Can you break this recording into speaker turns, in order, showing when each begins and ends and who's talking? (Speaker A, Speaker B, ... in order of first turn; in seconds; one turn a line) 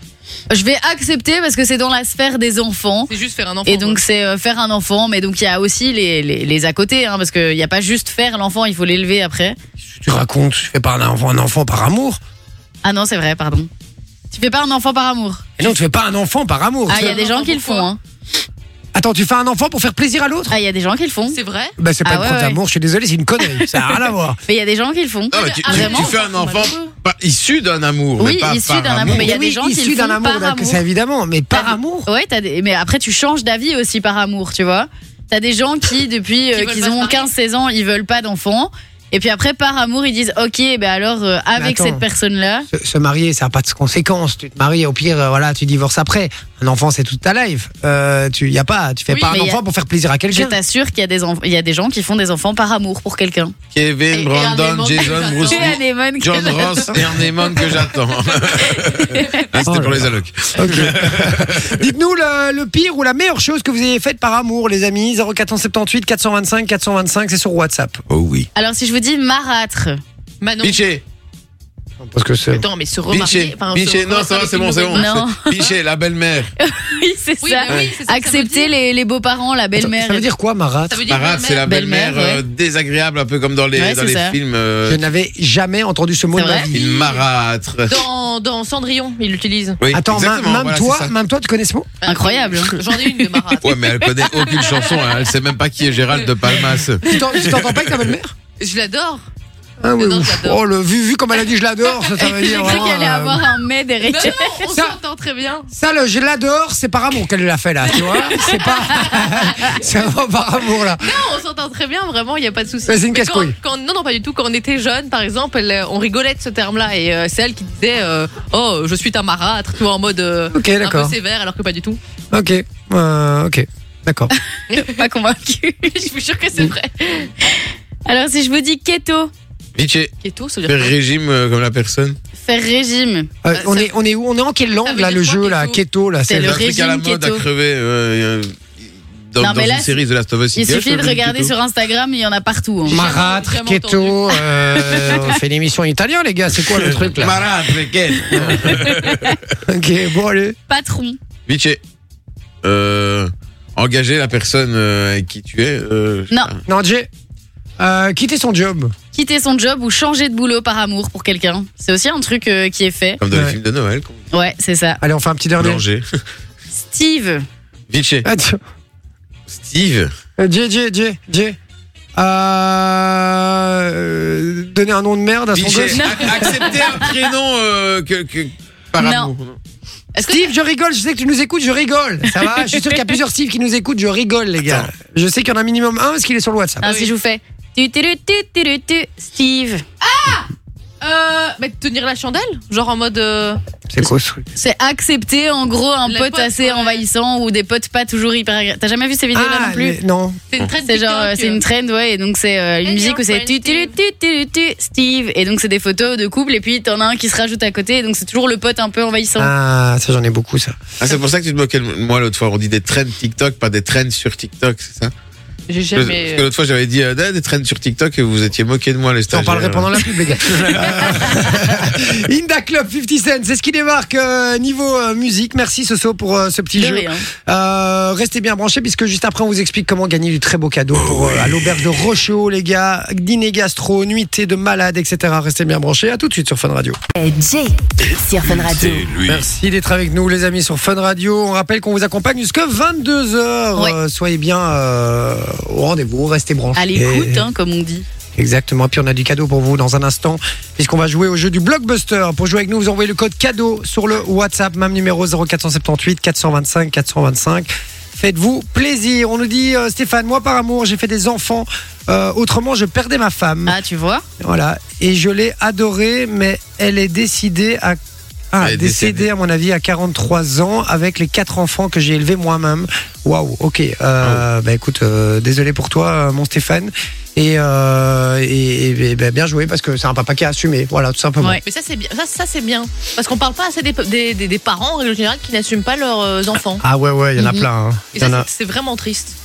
Speaker A: 0.5-3.1
Speaker B: 3.1-4.0
Speaker A: 3.6-9.6
Speaker C: 9.8-12.2
Speaker A: 12.8-13.7
Speaker A: 14.3-15.5
Speaker C: 15.6-17.2
Speaker A: 16.9-18.0
Speaker B: 16.9-17.9
Speaker C: 18.9-20.6
Speaker A: 20.5-21.4
Speaker B: 21.3-21.8
Speaker C: 21.8-24.4
Speaker A: 22.0-22.6
Speaker A: 24.5-26.1
Speaker D: 25.3-29.3
Speaker B: 25.3-26.9
Speaker A: 28.2-30.8
Speaker C: 29.1-32.1
Speaker A: 31.5-42.7
Speaker B: 36.5-37.3
Speaker C: 41.5-42.0
Speaker C: 42.7-50.6
Speaker A: 49.1-49.6
Speaker A: 50.3-53.5
Speaker D: 53.7-61.8
Speaker B: 54.1-55.8
Speaker A: 55.4-57.0
Speaker A: 59.0-59.5
Speaker C: 59.6-68.0
Speaker D: 68.1-68.5
Speaker A: 68.5-70.0
Speaker B: 70.4-70.8
Speaker D: 70.6-71.0
Speaker C: 72.0-72.7
Speaker B: 72.5-75.1
Speaker D: 73.1-76.5
Speaker A: 74.9-75.5
Speaker A: 76.6-80.2
Speaker B: 77.4-78.7
Speaker C: 79.7-81.0
Speaker B: 80.9-81.7
Speaker D: 81.1-85.0
Speaker A: 81.7-82.4
Speaker A: 83.8-84.3
Speaker C: 84.8-86.8
Speaker A: 86.3-86.7
Speaker B: 86.7-87.2
Speaker D: 86.7-88.0
Speaker B: 87.9-89.8
Speaker D: 89.8-91.1
Speaker C: 89.9-91.9
Speaker B: 92.0-93.8
Speaker A: 92.0-92.7
Speaker D: 93.6-97.7
Speaker B: 94.5-95.1
Speaker C: 97.0-98.3
Speaker B: 98.6-99.2
Speaker C: 99.8-103.5
Speaker B: 99.9-100.6
Speaker B: 102.2-103.0
Speaker A: 102.3-104.5
Speaker B: 104.0-105.7
Speaker C: 104.7-104.9
Speaker C: 105.7-111.1
Speaker B: 107.9-109.8
Speaker A: 108.3-109.6
Speaker B: 111.0-122.0
Speaker C: 112.9-113.5
Speaker C: 120.5-121.1
Speaker C: 122.3-124.3
Speaker B: 124.7-125.0
Speaker A: 124.7-126.1
Speaker B: 125.8-127.3
Speaker A: 127.4-129.3
Speaker D: 129.7-130.1
Speaker B: 130.2-130.9
Speaker D: 130.7-132.2
Speaker A: 132.4-133.3
Speaker C: 133.4-136.6
Speaker B: 133.5-133.9
Speaker B: 134.8-135.8
Speaker A: 136.3-137.4
Speaker D: 136.4-141.5
Speaker A: 139.4-140.0
Speaker A: 140.5-143.1
Speaker B: 142.8-145.1
Speaker C: 142.9-147.5
Speaker D: 146.8-149.4
Speaker C: 148.3-148.8
Speaker A: 148.7-149.4
Speaker C: 149.6-150.6
Speaker A: 150.7-151.2
Speaker D: 151.5-151.8
Speaker D: 152.6-156.6
Speaker C: 156.7-157.1
Speaker C: 157.8-158.9
Speaker A: 159.1-163.2
Speaker D: 163.2-164.2
Speaker C: 163.3-163.6
Speaker A: 164.3-165.0
Speaker C: 165.0-165.8
Speaker D: 165.6-166.1
Speaker A: 166.7-167.4
Speaker D: 167.9-168.2
Speaker C: 168.2-168.6
Speaker D: 169.5-170.1
Speaker C: 170.4-171.6
Speaker C: 172.2-176.6
Speaker D: 175.5-179.6
Speaker A: 175.9-177.1
Speaker A: 179.0-179.3
Speaker A: 180.1-180.5
Speaker C: 180.2-186.8
Speaker B: 186.8-187.1
Speaker A: 186.8-189.8
Speaker B: 190.0-190.5
Speaker B: 191.0-193.6
Speaker C: 193.9-194.4
Speaker A: 194.5-200.0
Speaker B: 196.1-197.0
Speaker C: 199.3-200.4
Speaker B: 200.5-201.6
Speaker A: 200.8-209.5
Speaker B: 202.8-203.9
Speaker C: 209.4-210.8
Speaker D: 211.0-215.1
Speaker B: 215.7-216.5
Speaker D: 215.9-222.0
Speaker C: 219.3-237.0
Speaker A: 226.7-227.2
Speaker D: 231.0-232.0
Speaker E: 237.1-239.1
Speaker D: 238.4-239.4
Speaker C: 239.2-247.5
Speaker A: 246.8-248.0
Speaker C: 248.3-263.8
Speaker A: 263.6-264.2
Speaker C: 264.4-268.0
Speaker C: 268.5-281.6
Speaker D: 268.6-269.3
Speaker B: 281.6-286.8
Speaker C: 286.8-288.5
Speaker A: 287.4-287.6
Speaker B: 288.1-289.4